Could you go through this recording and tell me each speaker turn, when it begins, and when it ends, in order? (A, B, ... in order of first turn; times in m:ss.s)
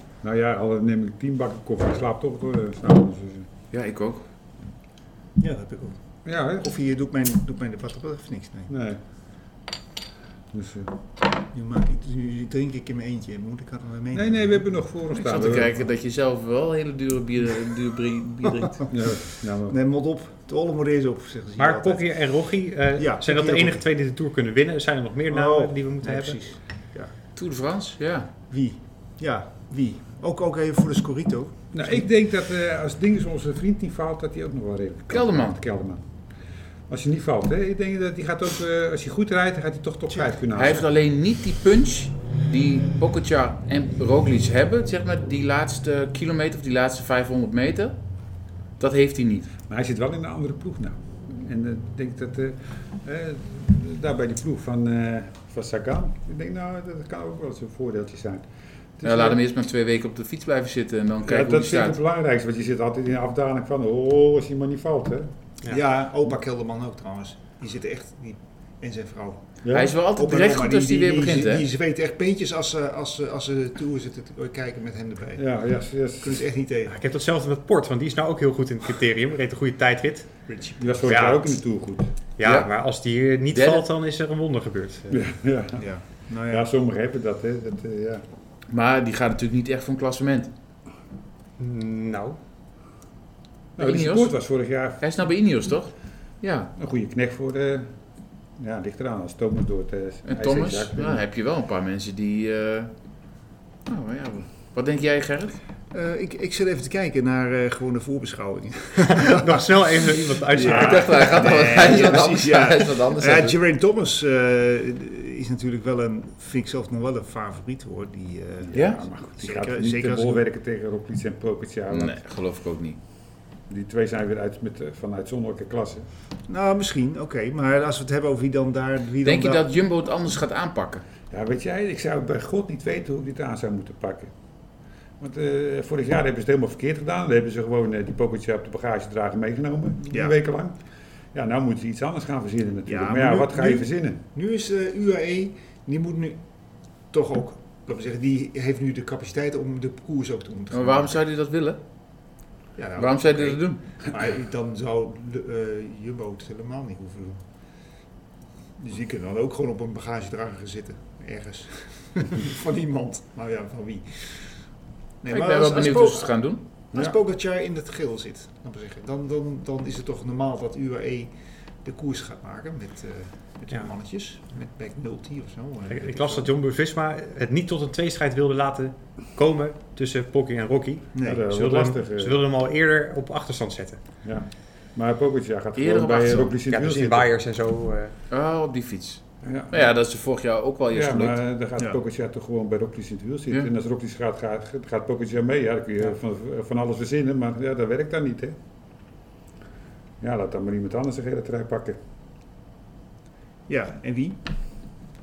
0:00.2-0:03.5 A
0:03.7-0:04.2 B
0:05.4-0:06.0 C
0:06.2-0:06.7 A
0:06.6-0:08.7 C
0:08.7-0:09.0 A
0:10.5-0:10.9 A
0:11.5-0:14.6 C
0:14.1-0:15.8 A
0:15.2-0:18.8 B
0:18.9-0:19.8 A
0:19.7-0:22.1 C
0:21.6-0:26.4 D
0:23.0-0:23.8 C
0:25.3-0:27.1 C
0:27.4-0:28.3 B
0:28.5-0:32.0 C
0:31.7-0:36.0 A
0:35.1-0:35.6 B
0:36.9-0:40.9 A
0:40.5-0:48.0 B
0:48.8-0:49.5 B
0:49.7-0:58.5 A
0:59.0-0:59.4 A
0:59.0-1:02.0 B
1:01.2-1:05.3 A
1:05.7-1:09.5 C
1:09.6-1:10.0 A
1:09.7-1:11.6 B
1:10.1-1:15.4 C
1:15.4-1:16.4 A
1:16.2-1:17.0 C
1:16.9-1:20.4 D
1:20.5-1:21.1 C
1:20.8-1:22.1 A
1:21.1-1:21.5 D
1:22.4-1:25.2 D
1:22.4-1:22.7 B
1:23.5-1:23.9 B
1:25.1-1:25.8 A
1:25.8-1:26.7 C
1:26.5-1:28.2 A
1:28.7-1:30.5 B
1:31.6-1:32.4 D
1:33.8-1:35.0 A
1:33.8-1:34.4 B
1:35.0-1:36.7 B
1:36.8-1:37.9 A
1:38.6-1:41.2 A
1:40.3-1:42.9 B
1:43.9-1:45.6 B
1:45.9-2:00.4 C
1:49.1-1:51.4 D
1:50.6-1:53.6 B
1:58.6-2:02.2 A
1:58.7-1:59.0 B
2:01.9-2:03.0 B
2:03.7-2:06.1 A
2:06.5-2:09.7 C
2:09.2-2:11.0 B
2:11.3-2:14.3 A
2:15.2-2:20.8 A
2:20.1-2:20.4 C
2:21.3-2:24.2 A
2:22.9-2:26.4 C
2:27.1-2:31.2 C
2:30.7-2:31.8 B
2:32.8-2:37.4 C
2:33.0-2:33.8 B
2:38.8-2:44.6 C
2:45.2-2:46.4 C
2:45.3-2:46.6 B
2:46.9-2:51.3 C
2:51.8-2:56.5 C
2:55.9-3:04.0 D
3:01.2-3:01.4 C
3:01.2-3:02.4 A
3:04.2-3:07.3 A
3:05.8-3:06.5 B
3:06.7-3:08.1 D
3:08.3-3:11.4 B
3:09.4-3:09.9 A
3:10.9-3:18.6 A
3:20.2-3:22.0 A
3:23.7-3:24.4 C